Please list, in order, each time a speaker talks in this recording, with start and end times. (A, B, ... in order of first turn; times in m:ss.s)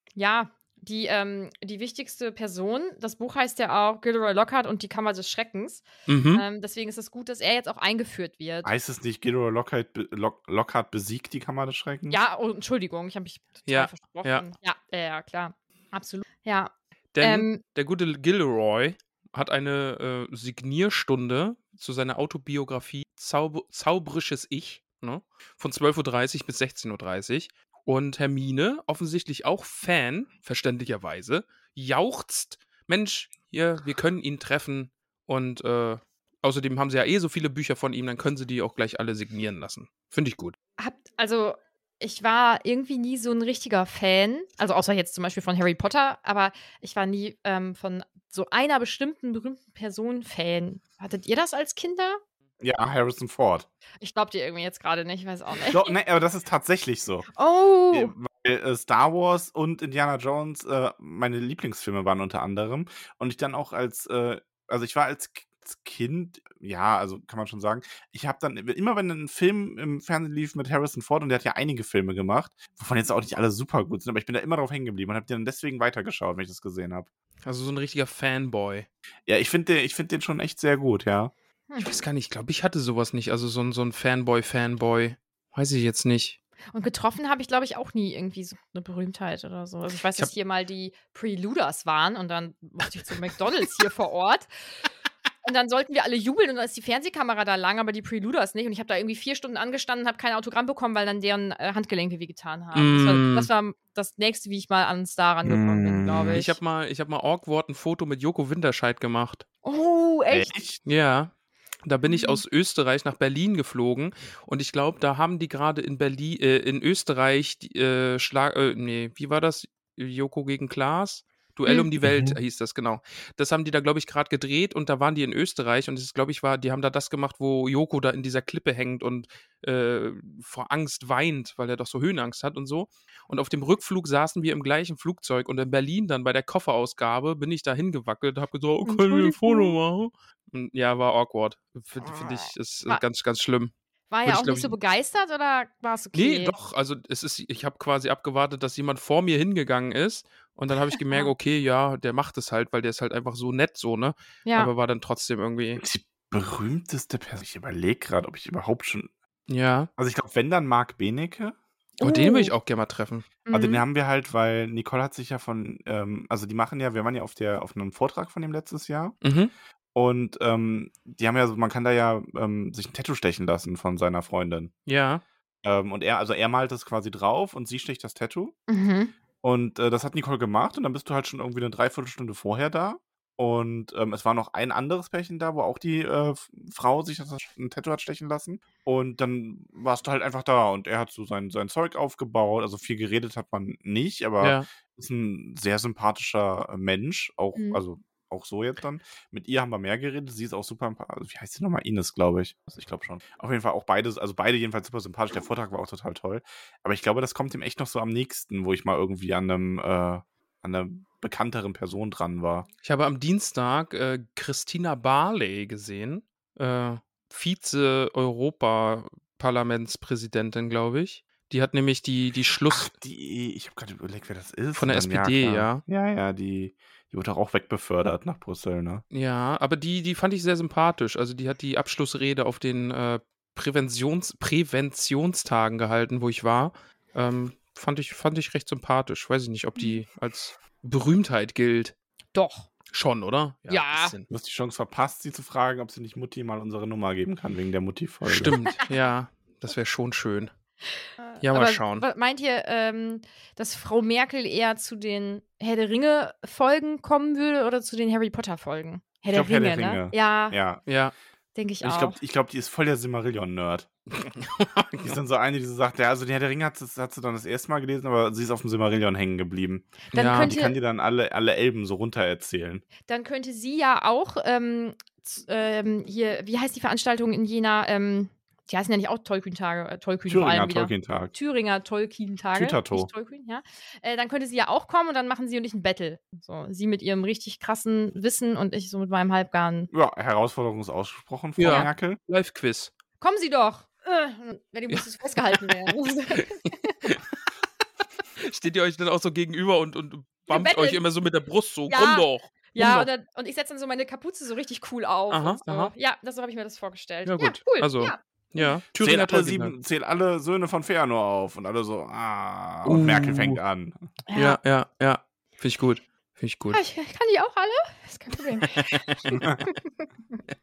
0:00.2-0:08.7 A
0:06.1-0:06.4 B
0:08.6-0:12.2 C
0:12.1-0:17.6 A
0:13.7-0:14.4 B
0:17.1-0:40.6 B
0:40.8-0:52.2 A
0:52.6-0:53.7 C
0:54.0-0:55.9 A
0:55.7-0:57.3 C
0:57.3-0:58.1 A
0:57.9-1:17.1 C
1:17.4-1:18.9 B
1:19.3-1:21.3 C
1:21.8-1:26.4 B
1:26.7-1:34.5 A
1:35.4-1:46.6 A
1:42.7-1:43.5 B
1:45.4-1:46.4 C
1:46.3-1:49.4 B
1:49.6-1:50.5 A
1:50.3-1:50.8 C
1:50.8-1:51.3 B
1:51.8-2:23.7 B
1:52.0-1:52.4 A
2:01.6-2:01.9 A
2:18.8-2:19.8 A
2:22.0-2:23.0 A
2:24.1-2:26.6 A
2:24.2-2:24.7 B
2:26.1-2:35.8 B
2:34.4-2:34.7 A
2:35.8-2:39.1 C
2:39.5-2:39.9 B
2:40.0-2:41.6 C
2:42.0-2:43.3 B
2:42.0-2:42.5 A
2:43.4-2:43.8 A
2:43.5-2:49.2 C
2:49.2-2:49.5 B
2:49.9-2:54.7 C
2:54.9-2:55.2 B
2:55.6-2:58.6 C
2:58.7-2:59.1 A
2:59.4-3:32.6 C
3:14.4-3:14.6 B
3:32.8-3:42.9 B
3:42.7-3:49.0 C
3:44.8-3:45.8 B
3:49.1-4:01.9 B
4:02.3-4:02.7 A
4:02.9-4:04.3 B
4:03.7-4:04.1 A
4:04.3-4:08.6 C
4:08.2-4:10.5 B
4:11.2-4:20.6 A
4:11.4-4:12.0 B
4:19.3-4:20.8 C
4:20.9-4:21.1 B
4:21.6-4:22.2 A
4:21.8-4:23.9 C
4:24.2-4:25.1 B
4:25.0-4:32.8 C
4:30.1-4:30.8 A
4:30.1-4:30.5 B
4:33.0-4:49.9 A
4:40.3-4:41.3 C
4:42.6-4:43.1 C
4:49.9-4:52.2 C
4:51.6-4:52.9 B
4:53.2-4:57.0 A
4:55.6-4:55.9 B
4:58.4-5:03.1 B
5:00.5-5:01.0 A
5:01.9-5:08.8 A
5:05.3-5:05.9 B
5:07.3-5:09.7 B
5:08.9-5:14.0 C
5:12.8-5:13.6 B
5:14.3-5:14.6 A
5:14.3-5:16.8 B
5:16.7-5:20.4 A
5:19.3-5:19.6 C